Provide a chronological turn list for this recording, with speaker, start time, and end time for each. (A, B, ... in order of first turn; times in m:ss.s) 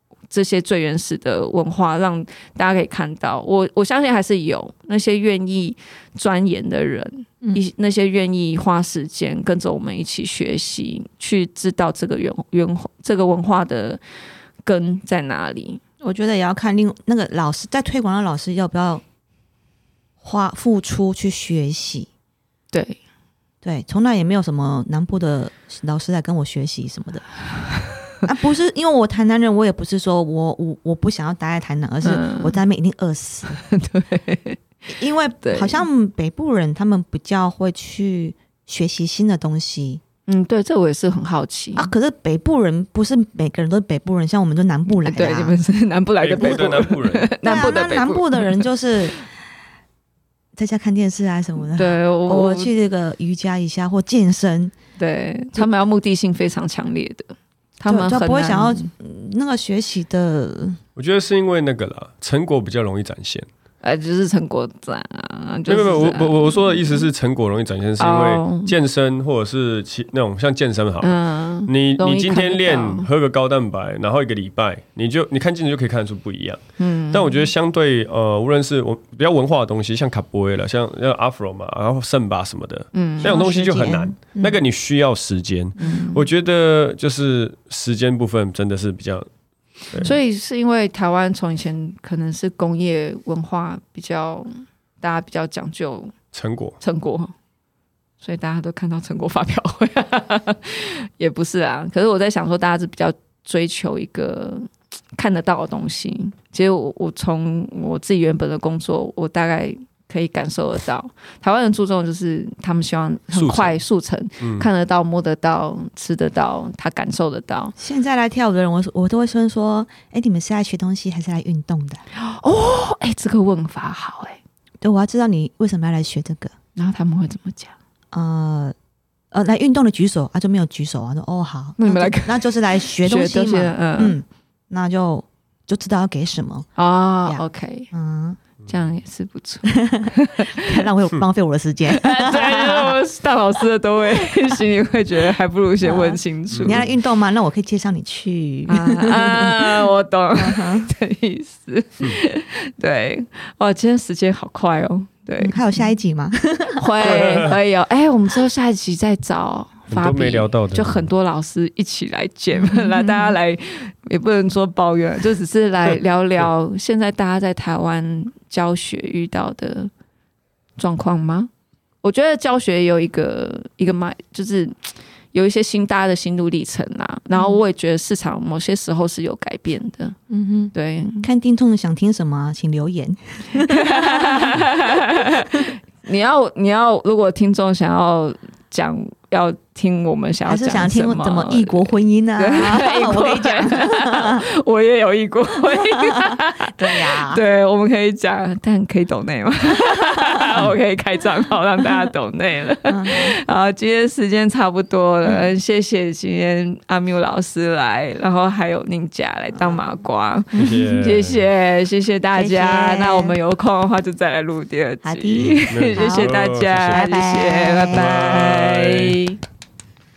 0:00.3-0:14.0 A
0:14.6-0:15.8 A
0:16.0-0:19.0 B
0:20.2-0:22.1 B
0:22.7-0:23.0 A
0:23.6-0:27.3 B
0:28.2-0:33.6 B
0:32.0-0:32.6 A
0:33.5-0:34.6 A
0:34.9-0:40.0 B
0:35.4-0:35.8 A
0:40.3-0:41.9 A
0:41.8-0:45.6 B
0:44.9-0:48.7 A
0:46.2-0:47.3 C
0:47.4-0:49.2 B
0:50.6-0:54.8 B
0:51.7-0:52.7 A
0:55.0-0:58.9 A
0:57.8-1:00.8 B
1:01.0-1:03.5 C
1:03.8-1:07.1 A
1:05.7-1:29.3 C
1:08.0-1:08.7 A
1:11.0-1:13.1 A
1:16.8-1:17.5 A
1:22.9-1:23.4 A
1:23.2-1:24.6 B
1:25.8-1:26.3 A
1:30.0-1:36.1 A
1:36.3-1:36.8 C
1:36.8-1:37.3 A
1:38.2-1:57.8 A
1:53.3-1:53.8 C
1:54.4-1:54.7 C
1:57.8-2:02.0 B
2:02.1-2:04.4 A
2:04.8-2:06.5 B
2:06.8-2:07.8 A
2:08.1-2:08.8 B
2:09.3-2:16.7 B
2:11.8-2:14.2 A
2:16.8-2:17.9 A
2:17.3-2:18.4 B
2:18.7-2:20.8 A
2:19.7-2:23.0 B
2:21.9-2:26.9 A
2:24.2-2:24.5 B
2:25.8-2:30.9 B
2:26.5-2:26.9 C
2:28.7-2:35.6 A
2:35.4-2:36.9 B
2:36.8-2:49.9 A
2:37.0-2:37.6 C
2:39.9-2:41.1 C
2:42.5-2:43.4 B
2:50.8-2:51.5 A
2:52.0-3:00.2 A
2:57.4-2:57.6 B
3:00.3-3:04.6 B
3:00.7-3:01.3 A
3:03.6-3:11.9 A
3:10.5-3:14.4 B
3:12.4-3:39.4 A
3:15.9-3:17.4 B
3:20.4-3:20.7 B
3:22.8-3:23.4 B
3:29.6-3:29.8 B
3:30.6-3:31.4 C
3:32.4-3:33.4 B
3:35.0-3:36.3 B
3:35.4-3:37.0 C
3:36.9-3:38.3 B
3:37.9-3:39.2 C